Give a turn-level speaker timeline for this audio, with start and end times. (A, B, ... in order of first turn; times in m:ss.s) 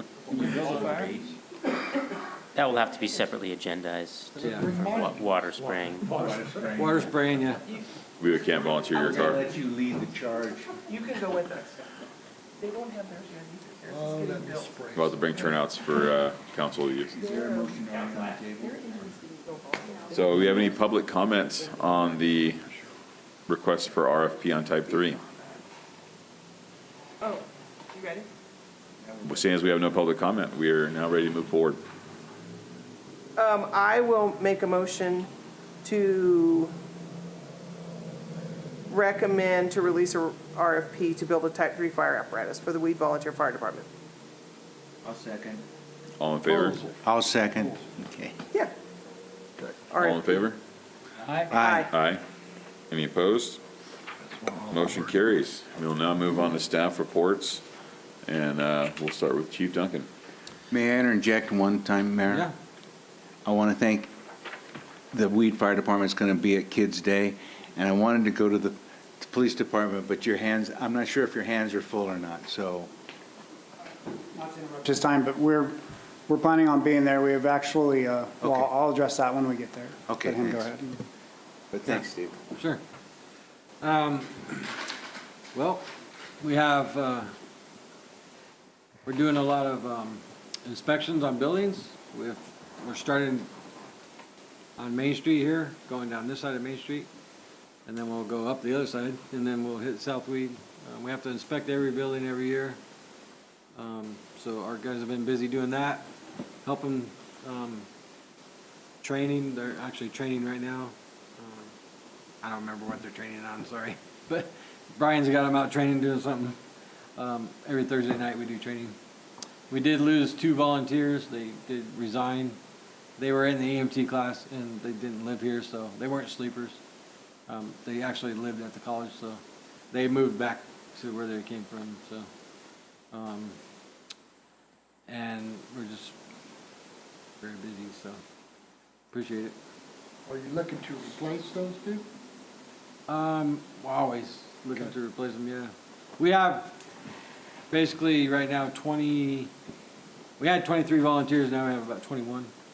0:00.3-0:01.4 A
0:00.3-0:01.1 B
0:00.4-0:00.8 C
0:00.6-0:00.9 D
0:02.5-0:06.1 D
0:02.8-0:03.2 B
0:04.3-0:06.8 C
0:06.1-0:07.1 A
0:06.8-0:07.6 E
0:08.2-0:09.6 F
0:08.9-0:10.8 A
0:10.8-0:12.0 B
0:12.6-0:14.7 B
0:13.9-0:15.6 C
0:14.9-0:17.2 F
0:17.1-0:18.8 A
0:17.2-0:17.8 B
0:18.6-0:20.6 B
0:20.1-0:22.6 F
0:23.5-0:25.2 F
0:27.2-0:28.3 B
0:29.0-0:29.5 A
0:29.2-0:31.8 F
0:33.4-0:35.3 B
0:35.8-0:36.7 B
0:38.9-0:43.9 B
0:45.0-0:45.6 A
0:46.2-0:46.9 F
0:47.0-0:48.4 A
0:49.9-0:50.4 B
0:50.0-0:50.6 F
0:51.5-0:51.9 A
0:51.5-0:51.9 B
0:51.9-0:52.2 F
0:52.9-0:53.6 F
0:54.4-0:54.8 C
0:54.7-0:57.6 F
0:58.2-1:00.1 F
1:00.7-1:02.5 A
1:02.3-1:02.5 E
1:03.4-1:04.1 A
1:05.1-1:12.9 A
1:14.8-1:21.0 G
1:18.4-1:18.7 A
1:20.1-1:20.8 A
1:21.7-1:22.4 A
1:21.9-1:22.8 E
1:23.8-1:24.9 E
1:25.5-1:27.3 E
1:29.0-1:33.5 E
1:34.8-1:37.1 E
1:37.8-1:42.8 E
1:43.7-1:46.1 E
1:46.6-1:47.9 E
1:49.0-1:51.7 E
1:52.4-1:56.6 E
1:57.2-1:59.0 E
1:59.7-2:02.6 E
2:03.2-2:06.8 E
2:07.5-2:12.3 E
2:13.1-2:13.6 E
2:15.1-2:16.2 E
2:17.4-2:18.2 E
2:19.1-2:19.6 E
2:20.2-2:22.0 C
2:23.1-2:26.8 E
2:27.7-2:29.5 E
2:30.4-2:32.5 E